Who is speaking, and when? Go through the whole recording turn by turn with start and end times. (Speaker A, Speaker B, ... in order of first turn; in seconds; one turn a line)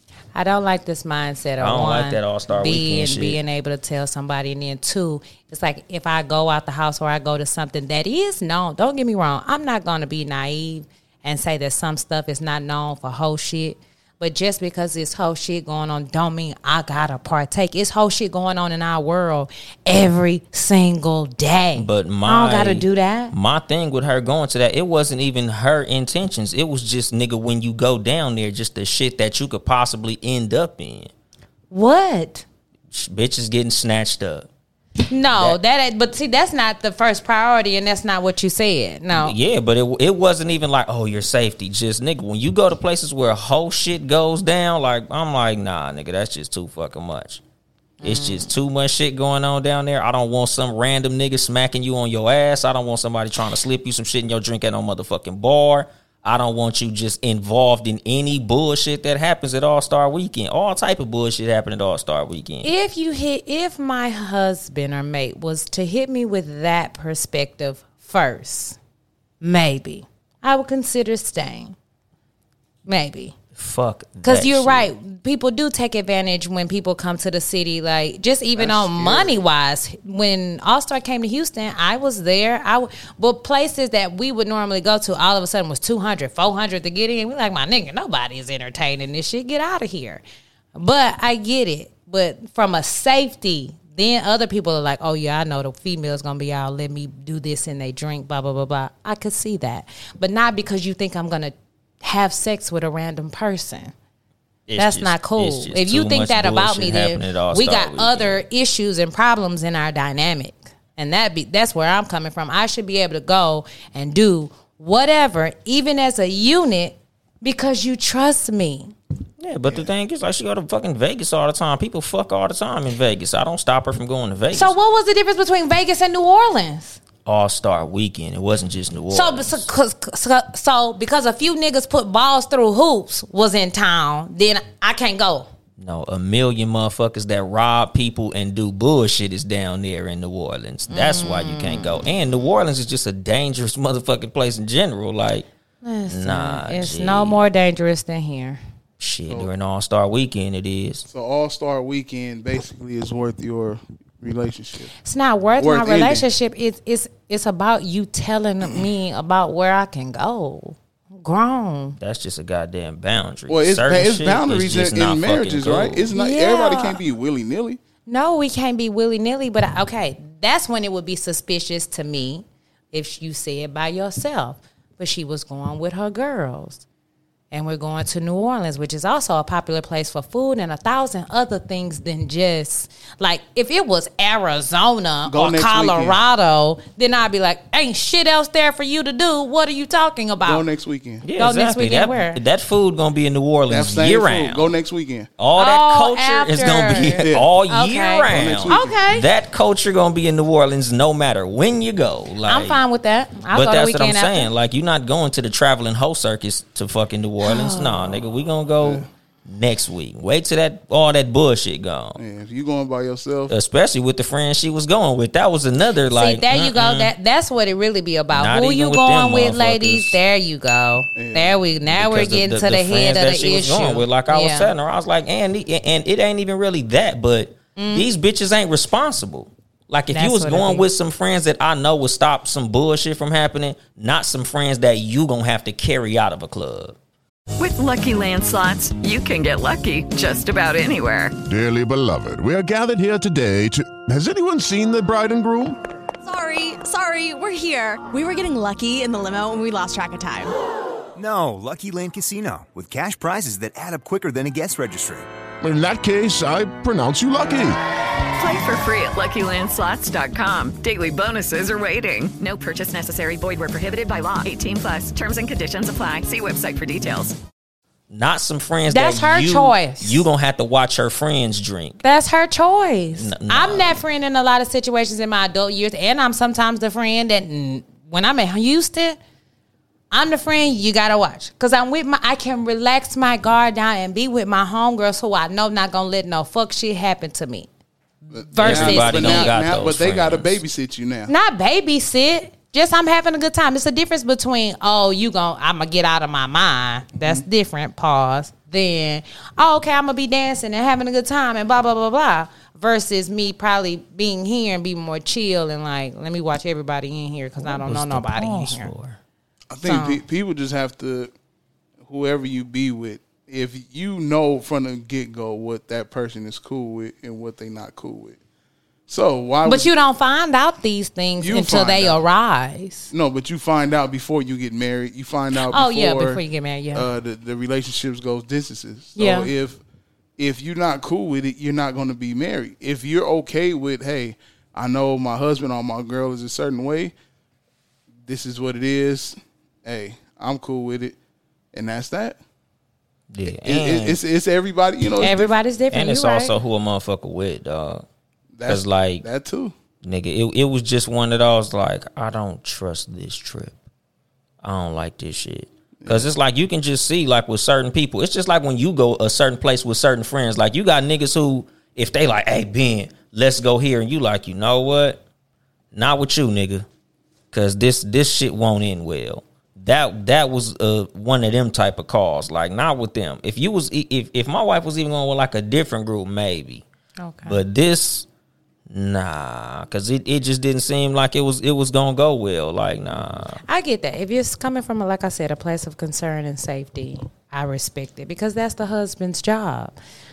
Speaker A: 0.3-23.3
Speaker B: 1.6-3.4
Speaker B: 21.7-31.1
Speaker A: 31.7-32.4
Speaker B: 32.9-34.5
Speaker A: 35.1-39.4
Speaker B: 39.1-47.4
Speaker A: 48.0-48.5
Speaker B: 48.0-62.7
Speaker A: 62.6-68.8
Speaker A: 69.4-71.7
Speaker A: 72.8-73.3
Speaker B: 73.5-74.9
Speaker A: 74.2-90.2
Speaker C: 78.5-79.3
Speaker A: 90.8-103.9
Speaker B: 104.7-108.4
Speaker A: 104.8-118.9
Speaker B: 119.4-124.8
Speaker A: 124.5-127.0
Speaker B: 127.2-129.7
Speaker A: 129.1-135.5
Speaker B: 135.8-145.5
Speaker A: 140.9-142.0
Speaker A: 145.8-148.6
Speaker B: 146.1-147.4
Speaker B: 149.0-151.1
Speaker C: 151.1-154.9
Speaker A: 155.0-162.0
Speaker C: 155.6-156.2
Speaker B: 162.0-166.1
Speaker C: 163.5-167.8
Speaker A: 166.1-167.0
Speaker A: 168.1-176.8
Speaker A: 177.5-190.6
Speaker C: 185.3-186.2
Speaker C: 190.4-191.2
Speaker B: 191.2-194.7
Speaker A: 191.4-192.4
Speaker C: 193.7-195.3
Speaker B: 195.4-202.8
Speaker A: 195.6-199.3
Speaker C: 197.2-197.5
Speaker C: 198.3-199.0
Speaker A: 202.4-204.5
Speaker B: 203.5-212.2
Speaker A: 207.4-208.2
Speaker C: 208.8-209.1
Speaker C: 212.2-213.5
Speaker B: 213.5-217.1
Speaker A: 216.1-224.7
Speaker B: 218.3-220.2
Speaker C: 221.1-221.6
Speaker B: 221.9-236.9
Speaker A: 227.8-228.1
Speaker A: 230.1-230.8
Speaker D: 237.6-241.3
Speaker E: 241.4-245.8
Speaker F: 246.2-250.5
Speaker G: 251.2-255.2
Speaker E: 255.6-257.8
Speaker D: 258.4-267.4
Speaker B: 268.1-272.0
Speaker A: 268.9-270.2
Speaker A: 272.0-279.2
Speaker B: 273.1-274.0
Speaker A: 280.1-287.7
Speaker C: 288.3-291.3
Speaker A: 288.3-289.5
Speaker B: 288.6-290.6
Speaker A: 291.3-308.9
Speaker B: 307.6-309.2
Speaker C: 309.7-311.3
Speaker A: 309.8-310.2
Speaker C: 312.0-318.4
Speaker C: 319.1-319.9
Speaker A: 319.6-323.1
Speaker C: 321.4-322.2
Speaker C: 323.1-326.4
Speaker A: 325.6-327.1
Speaker C: 326.9-329.8
Speaker A: 329.1-329.5
Speaker C: 330.4-337.1
Speaker C: 338.2-341.1
Speaker C: 341.7-342.4
Speaker B: 343.3-344.2
Speaker C: 343.4-345.5
Speaker A: 345.2-346.6
Speaker B: 345.9-348.0
Speaker C: 348.5-349.7
Speaker B: 348.6-349.2
Speaker B: 350.0-353.8
Speaker B: 354.6-365.2
Speaker C: 356.0-356.3
Speaker B: 365.9-366.9
Speaker B: 367.5-376.8
Speaker A: 377.2-377.6
Speaker B: 377.5-378.3
Speaker B: 378.9-383.6
Speaker A: 383.6-389.9